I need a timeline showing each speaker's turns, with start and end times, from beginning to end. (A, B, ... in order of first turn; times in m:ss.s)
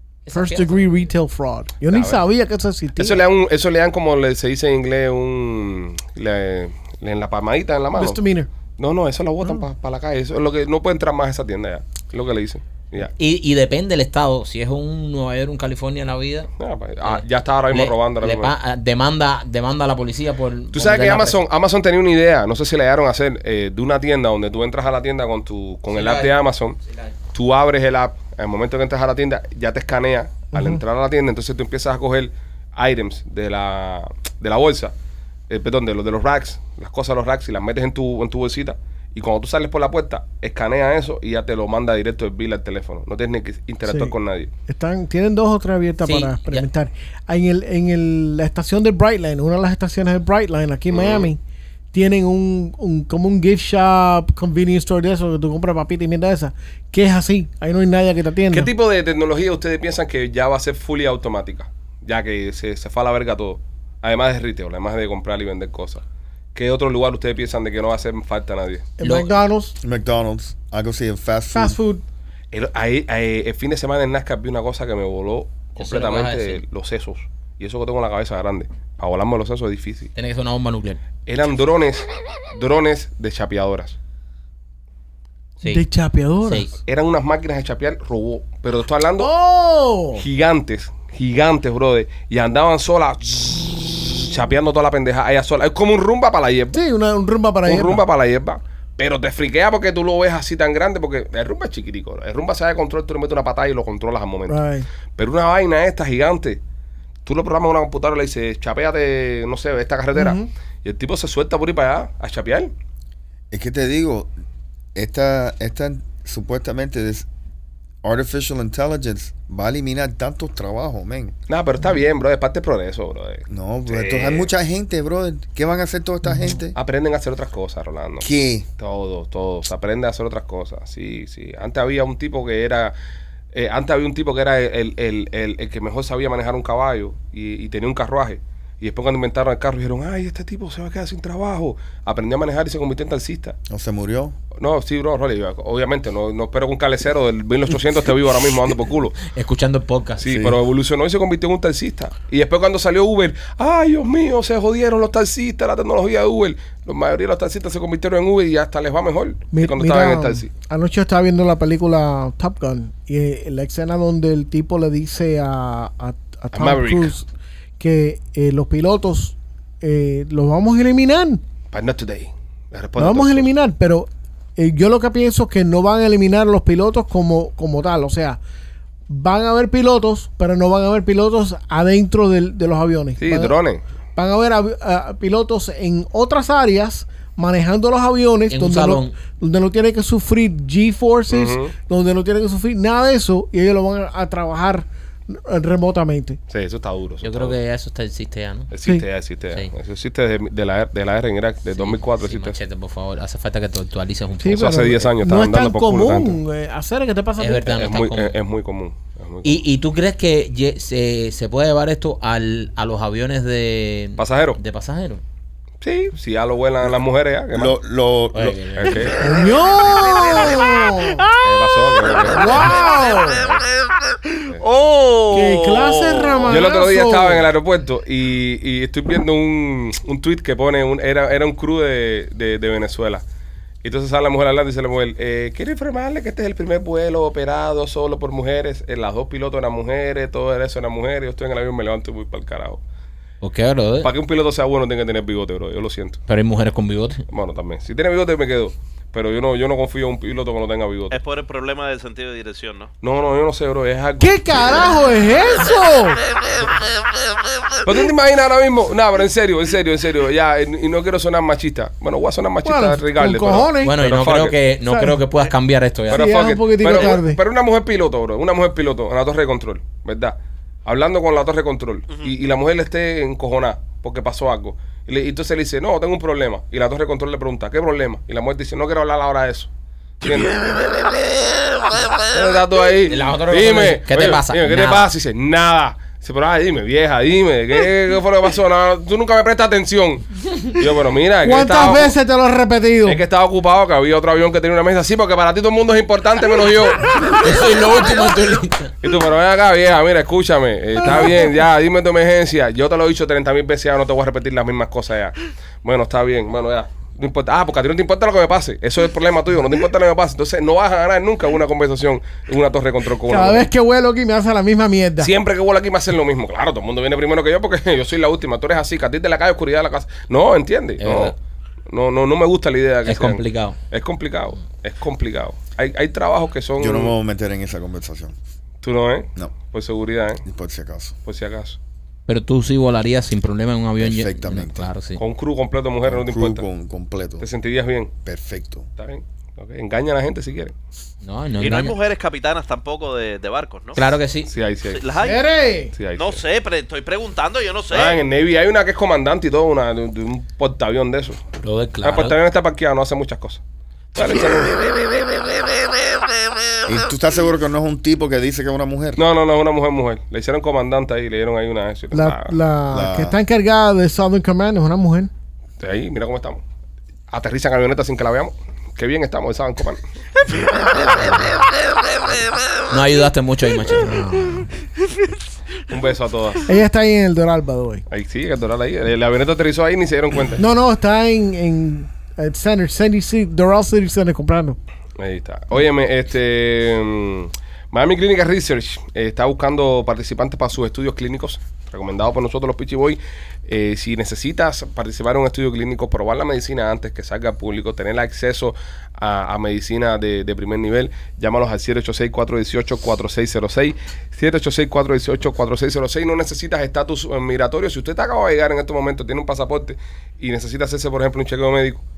0:00.3-0:01.1 A
0:00.3-0:03.2 B
0:01.9-0:02.2 C
0:03.0-0:08.2 C
0:08.0-0:08.5 B
0:08.8-0:13.1 C
0:13.0-0:16.5 A
0:16.6-0:18.5 C
0:17.0-0:21.4 A
0:20.7-0:26.8 C
0:25.9-0:27.1 A
0:27.3-0:34.9 C
0:30.5-0:30.8 B
0:35.5-0:44.5 C
0:43.9-0:44.1 B
0:44.7-0:51.4 B
0:46.0-0:46.7 A
0:50.9-0:51.3 C
0:51.9-0:58.7 B
0:58.5-1:06.0 C
1:06.5-1:08.9 C
1:09.0-1:09.8 B
1:09.0-1:09.3 A
1:09.8-1:11.8 D
1:11.5-1:12.0 B
1:12.5-1:20.1 C
1:15.8-1:16.6 A
1:20.2-1:21.0 A
1:21.3-1:24.0 C
1:25.7-1:26.7 B
1:26.4-1:26.7 A
1:26.8-1:29.3 C
1:29.2-1:30.2 B
1:30.2-1:36.8 C
1:36.7-1:38.0 B
1:37.6-1:44.6 C
1:44.5-1:44.9 B
1:45.2-1:46.6 C
1:47.2-1:52.7 C
1:50.2-1:50.5 B
1:53.5-1:54.3 D
1:55.0-1:57.3 D
1:58.0-2:01.4 D
2:01.5-2:04.5 C
2:03.5-2:06.8 D
2:06.2-2:06.6 B
2:06.8-2:13.0 C
2:08.2-2:08.7 D
2:13.5-2:23.6 C
2:23.7-2:24.4 D
2:24.6-2:29.2 C
2:29.3-2:30.3 A
2:30.2-2:40.5 C
2:30.3-2:30.6 D
2:39.5-2:47.3 B
2:46.5-2:47.1 C
2:47.8-2:51.4 B
2:51.7-2:53.5 C
2:53.0-2:58.4 B
2:59.1-3:03.6 B
3:03.2-3:03.8 C
3:04.2-3:16.4 B
3:08.5-3:09.2 A
3:11.3-3:11.7 C
3:16.5-3:17.6 C
3:17.2-3:18.7 A
3:18.7-3:22.6 C
3:21.7-3:25.0 A
3:24.4-3:27.7 B
3:24.5-3:26.4 C
3:27.4-3:28.4 A
3:27.7-3:29.6 C
3:29.4-3:35.2 A
3:34.2-3:34.6 C
3:35.8-3:37.7 C
3:37.5-3:38.6 D
3:38.3-3:39.4 A
3:38.8-3:39.3 C
3:39.2-3:41.3 B
3:41.4-3:42.8 C
3:42.1-3:43.5 B
3:44.6-3:46.3 E
3:45.3-3:47.5 B
3:46.4-3:53.2 C
3:53.8-4:02.8 C
4:03.4-4:04.1 A
4:04.0-4:06.2 C
4:06.3-4:07.2 A
4:07.3-4:11.2 C
4:11.1-4:12.9 E
4:13.0-4:15.0 C
4:14.2-4:16.2 B
4:17.8-4:24.6 C
4:22.6-4:24.0 B
4:23.8-4:26.4 A
4:24.9-4:25.2 B
4:26.1-4:27.4 B
4:26.1-4:39.7 C
4:40.2-4:40.8 C
4:42.2-4:52.2 C
4:43.1-4:45.1 A
4:51.4-4:53.2 B
4:53.0-4:57.2 C
4:57.4-4:59.0 A
4:59.0-5:13.7 C
5:13.2-5:15.3 B
5:15.2-5:21.4 C
5:21.0-5:21.4 A
5:21.9-5:27.2 C
5:23.0-5:23.8 A
5:26.8-5:28.4 D
5:28.8-5:30.4 C
5:30.4-5:31.2 D
5:31.2-5:31.8 C
5:32.3-5:35.2 A
5:34.0-5:34.9 D
5:35.2-5:36.7 C
5:36.0-5:37.5 D
5:37.4-5:38.1 C
5:38.2-5:38.9 D
5:39.0-5:40.7 C
5:41.2-5:42.0 A
5:41.6-5:44.0 E
5:44.0-5:44.5 A
5:44.5-5:45.1 C
5:44.9-5:45.4 E
5:45.2-5:46.0 B
5:46.0-5:46.4 C
5:46.2-5:48.2 E
5:47.9-5:51.4 C
5:51.6-5:52.4 A
5:52.0-5:53.6 C
5:54.1-5:54.8 C
5:56.9-5:59.2 D
5:59.2-6:02.6 C
6:02.1-6:05.3 B
6:02.9-6:03.4 D
6:05.8-6:06.6 C
6:07.3-6:10.0 C
6:12.9-6:14.6 A
6:14.0-6:14.7 B
6:15.9-6:16.7 C
6:16.6-6:18.0 B
6:18.1-6:20.6 C
6:20.6-6:24.8 B
6:25.2-6:52.0 C